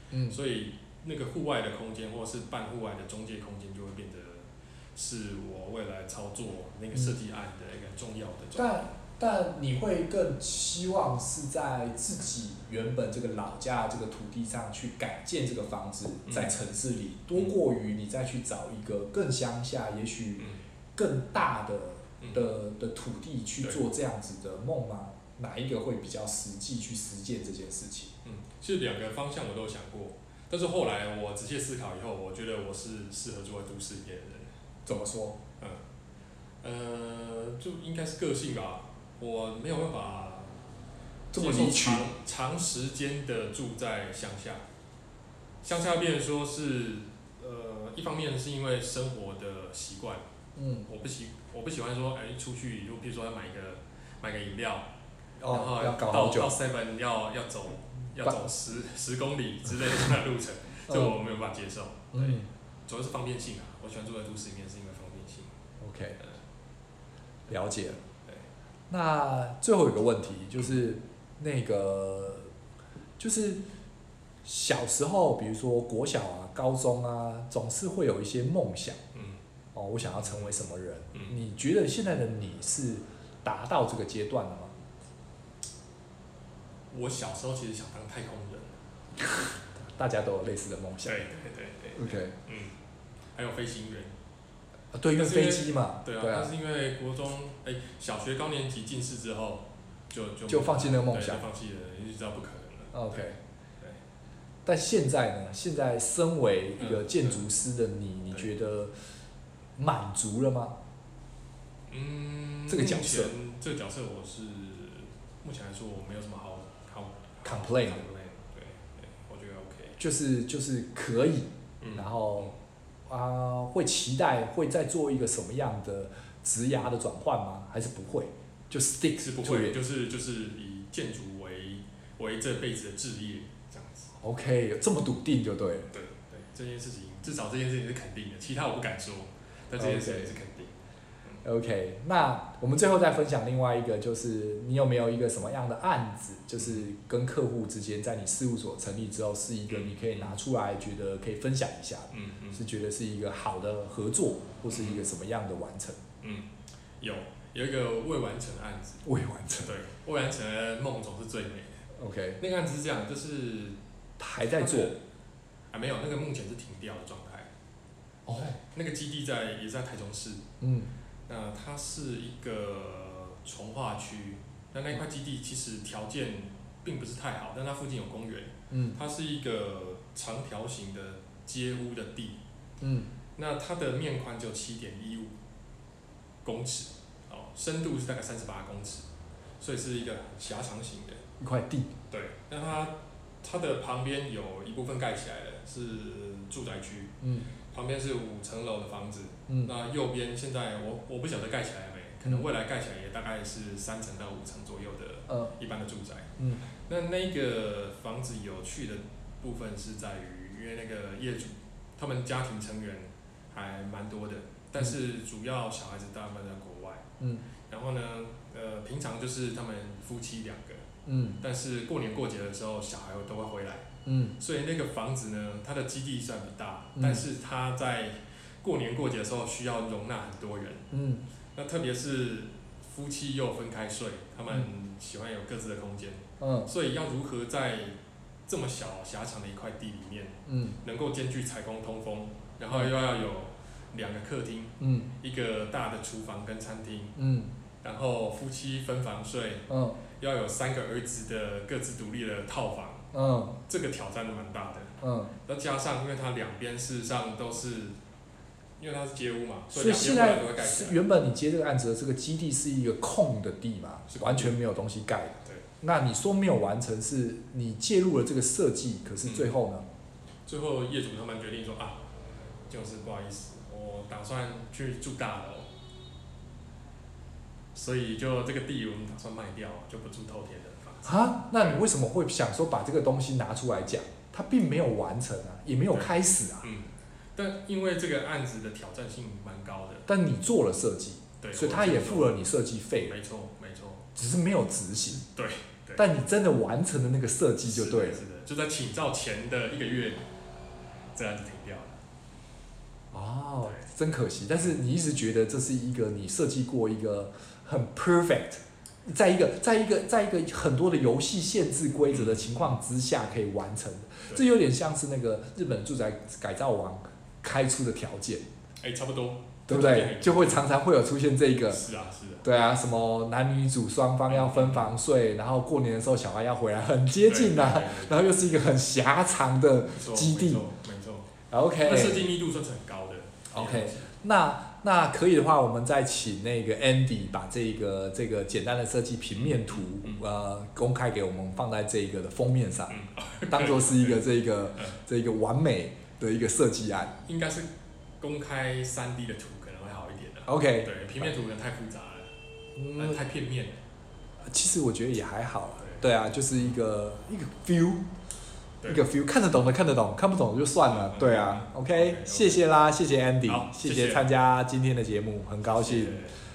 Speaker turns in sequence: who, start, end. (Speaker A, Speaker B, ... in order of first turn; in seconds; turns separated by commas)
Speaker A: 0.1-0.4, Speaker B: 0.3-8.8, Speaker A: 8.6-28.1, Speaker B: 16.2-16.6, Speaker B: 22.2-22.5, Speaker B: 28.2-34.5, Speaker A: 34.8-35.4, Speaker B: 36.6-40.6, Speaker A: 41.3-42.1, Speaker B: 41.3-44.6, Speaker B: 45.6-50.2, Speaker A: 50.5-50.9, Speaker B: 50.9-54.9, Speaker A: 55.4-56.5, Speaker B: 55.5-65.5, Speaker A: 60.9-61.2, Speaker A: 62.1-62.5, Speaker A: 65.8-66.2, Speaker A: 67.5-68.0, Speaker A: 68.9-72.5, Speaker A: 73.2-73.6, Speaker A: 74.4-79.0, Speaker B: 79.1-79.4, Speaker A: 79.7-84.7, Speaker B: 80.2-81.3, Speaker B: 86.9-88.7, Speaker A: 89.2-91.3, Speaker B: 91.0-92.7, Speaker A: 92.0-92.3, Speaker B: 93.3-94.1, Speaker A: 94.9-96.5, Speaker B: 95.1-104.0, Speaker A: 100.5-101.4, Speaker A: 102.9-103.3, Speaker A: 104.6-108.9, Speaker B: 106.8-107.4, Speaker A: 109.8-110.8, Speaker B: 111.9-120.0, Speaker A: 112.7-113.3, Speaker A: 117.4-118.0, Speaker A: 120.0-122.5, Speaker B: 121.8-122.5, Speaker A: 123.1-129.8, Speaker B: 129.2-134.1, Speaker A: 134.2-135.9, Speaker B: 135.9-140.7, Speaker A: 139.8-140.3, Speaker A: 141.4-156.0, Speaker B: 146.6-146.8, Speaker B: 149.7-150.4, Speaker B: 152.1-152.6, Speaker B: 154.7-155.0, Speaker B: 156.2-156.5, Speaker B: 157.0-159.0, Speaker A: 159.0-159.7, Speaker B: 159.6-161.8, Speaker A: 161.9-162.4, Speaker B: 162.4-163.8, Speaker A: 164.2-164.9, Speaker B: 164.6-165.0, Speaker B: 165.7-167.5, Speaker A: 168.3-168.6, Speaker B: 168.3-170.4, Speaker A: 170.6-170.9, Speaker B: 171.3-182.4, Speaker A: 178.7-179.0, Speaker A: 182.8-183.1, Speaker B: 183.3-185.3, Speaker B: 186.4-189.0, Speaker B: 189.6-191.2, Speaker A: 191.4-191.9, Speaker B: 192.1-197.2, Speaker A: 197.2-197.5, Speaker B: 197.7-217.1, Speaker A: 199.5-199.7, Speaker B: 217.7-220.9, Speaker A: 221.1-221.4, Speaker B: 221.4-230.8, Speaker A: 224.0-224.3, Speaker A: 227.0-227.2, Speaker A: 230.9-231.2, Speaker B: 231.5-237.9, Speaker A: 236.4-236.7, Speaker B: 238.5-247.2, Speaker A: 240.4-240.8, Speaker A: 244.8-245.1, Speaker A: 247.2-247.5, Speaker B: 247.8-253.1, Speaker A: 249.7-250.0, Speaker A: 253.1-253.5, Speaker B: 253.7-257.9, Speaker A: 255.0-255.3, Speaker B: 258.8-261.0, Speaker A: 259.7-269.9, Speaker B: 264.1-264.6, Speaker B: 269.2-269.5, Speaker B: 270.5-272.0, Speaker B: 272.7-275.7, Speaker B: 277.7-281.8, Speaker A: 281.0-286.6, Speaker B: 285.9-290.1, Speaker A: 290.1-293.2, Speaker B: 291.4-292.4, Speaker B: 293.0-294.1, Speaker A: 294.1-295.2, Speaker B: 295.2-296.1, Speaker A: 295.9-298.2, Speaker B: 297.6-300.2, Speaker B: 301.1-302.0, Speaker A: 303.1-318.4, Speaker B: 303.6-303.9, Speaker B: 312.1-312.8, Speaker B: 318.8-320.7, Speaker A: 319.7-321.8, Speaker B: 321.7-322.4, Speaker A: 322.4-330.6, Speaker B: 324.3-324.9, Speaker B: 327.2-328.6, Speaker B: 329.9-334.1, Speaker A: 331.5-332.3, Speaker A: 333.5-343.0, Speaker B: 339.3-340.2, Speaker B: 342.9-345.0, Speaker A: 343.5-347.2, Speaker B: 347.2-347.7, Speaker B: 348.2-352.3, Speaker A: 350.4-351.3, Speaker A: 352.8-353.2, Speaker B: 352.9-353.8, Speaker A: 354.4-358.0, Speaker B: 355.8-356.1, Speaker B: 358.8-359.1, Speaker A: 358.9-366.2, Speaker B: 360.8-362.6, Speaker B: 363.4-364.3, Speaker B: 365.6-366.4